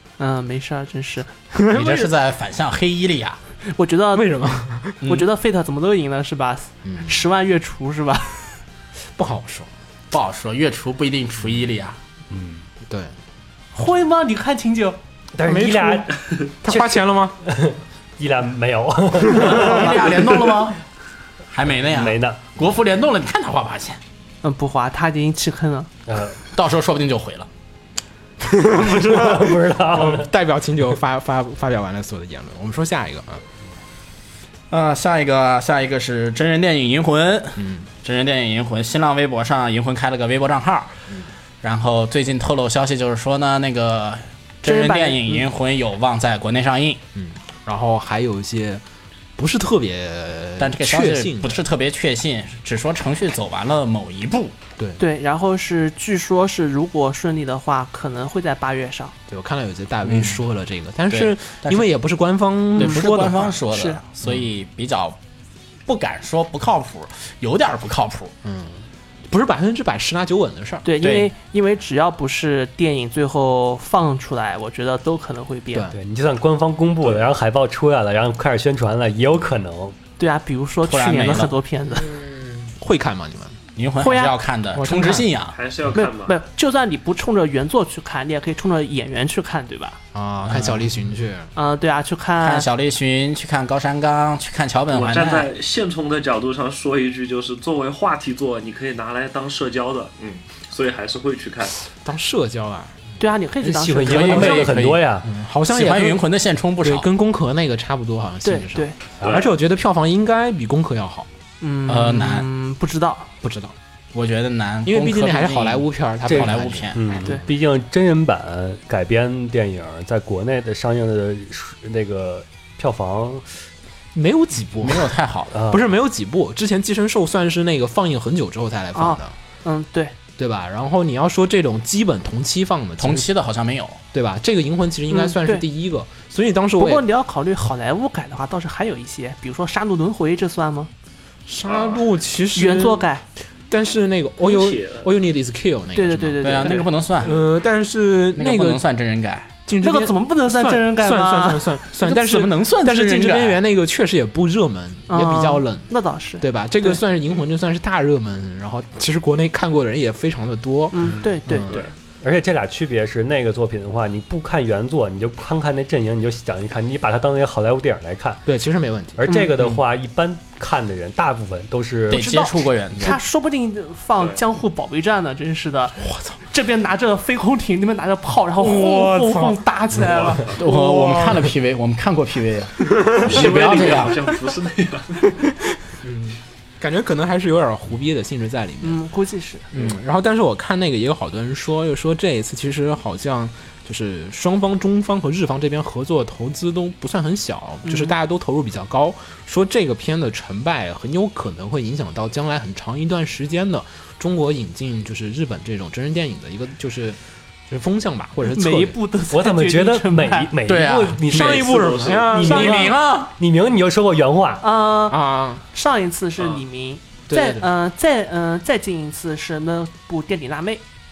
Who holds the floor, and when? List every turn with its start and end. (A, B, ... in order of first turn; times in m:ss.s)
0:00.2-0:01.3 A
0:01.5-0:02.1 B
0:01.7-0:03.4 C
0:03.6-0:04.5 A
0:04.1-0:05.1 B
0:05.0-0:05.3 C
0:05.0-0:08.6 A
0:06.8-0:07.2 B
0:09.2-0:09.7 B
0:10.1-0:12.0 C
0:12.3-0:12.6 D
0:12.8-0:13.1 B
0:13.7-0:15.0 A
0:15.4-0:20.6 D
0:15.4-0:17.4 B
0:19.3-0:19.8 B
0:19.3-0:20.8 C
0:21.5-0:24.0 C
0:21.9-0:22.4 D
0:24.4-0:25.9 A
0:26.1-0:26.4 D
0:26.5-0:27.5 C
0:28.4-0:33.4 B
0:28.6-0:30.3 D
0:34.7-0:41.1 C
0:37.6-0:37.9 B
0:41.6-0:47.0 C
0:44.6-0:45.5 A
0:47.2-0:48.8 B
0:49.4-0:51.6 B
0:50.6-0:54.6 C
0:55.0-0:59.2 A
0:59.3-1:03.7 B
1:00.0-1:00.4 C
1:01.1-1:01.9 C
1:02.8-1:05.2 C
1:03.7-1:04.0 A
1:04.2-1:04.5 B
1:05.9-1:08.3 C
1:08.4-1:10.9 B
1:10.8-1:15.9 A
1:11.0-1:11.3 C
1:15.7-1:16.0 B
1:15.9-1:20.0 D
1:20.2-1:22.1 A
1:20.8-1:21.5 C
1:22.0-1:23.6 B
1:23.8-1:25.6 C
1:24.0-1:24.3 A
1:24.7-1:25.3 B
1:25.5-1:26.4 E
1:25.9-1:30.0 A
1:30.1-1:31.5 B
1:30.4-1:30.9 C
1:31.6-1:32.7 A
1:32.4-1:35.5 C
1:34.9-1:41.8 E
1:42.0-1:43.2 B
1:43.2-1:44.7 A
1:43.6-1:45.3 D
1:44.0-1:45.0 C
1:44.4-1:44.7 B
1:45.2-1:46.2 B
1:45.7-1:47.1 C
1:46.8-1:51.3 B
1:48.4-1:49.0 A
1:51.6-1:53.3 A
1:51.9-1:52.5 C
1:53.4-1:53.8 B
1:54.1-1:57.2 C
1:54.8-1:57.5 B
1:56.3-2:03.5 D
2:04.1-2:05.1 B
2:04.8-2:05.6 C
2:05.5-2:05.8 D
2:05.7-2:09.4 B
2:09.0-2:10.1 A
2:10.4-2:13.3 B
2:13.0-2:14.0 C
2:14.1-2:17.0 B
2:15.1-2:15.6 A
2:16.8-2:20.9 A
2:21.5-2:23.1 B
2:21.7-2:22.0 E
2:22.6-2:23.2 A
2:23.7-2:28.8 B
2:24.4-2:25.1 E
2:26.0-2:26.9 A
2:26.4-2:27.4 C
2:28.4-2:29.5 C
2:29.7-2:41.9 B
2:29.8-2:31.7 A
2:32.0-2:33.6 C
2:35.1-2:37.0 A
2:40.9-2:41.9 A
2:42.2-2:48.4 D
2:48.5-2:49.3 B
2:49.2-2:52.4 D
2:49.3-2:49.5 A
2:52.1-2:53.2 C
2:52.1-3:00.6 A
2:56.0-2:56.4 B
2:58.6-3:01.5 B
3:00.0-3:00.6 E
3:00.6-3:04.4 C
3:03.0-3:03.3 B
3:03.1-3:05.3 E
3:06.0-3:09.0 B
3:08.8-3:09.7 A
3:09.7-3:29.0 B
3:17.8-3:18.1 A
3:28.4-3:30.5 A
3:29.3-3:34.6 D
3:30.7-3:31.6 C
3:31.3-3:33.0 B
3:31.6-3:32.4 E
3:32.3-3:33.3 C
3:34.6-3:40.8 A
3:35.1-3:35.6 B
3:37.3-3:37.7 B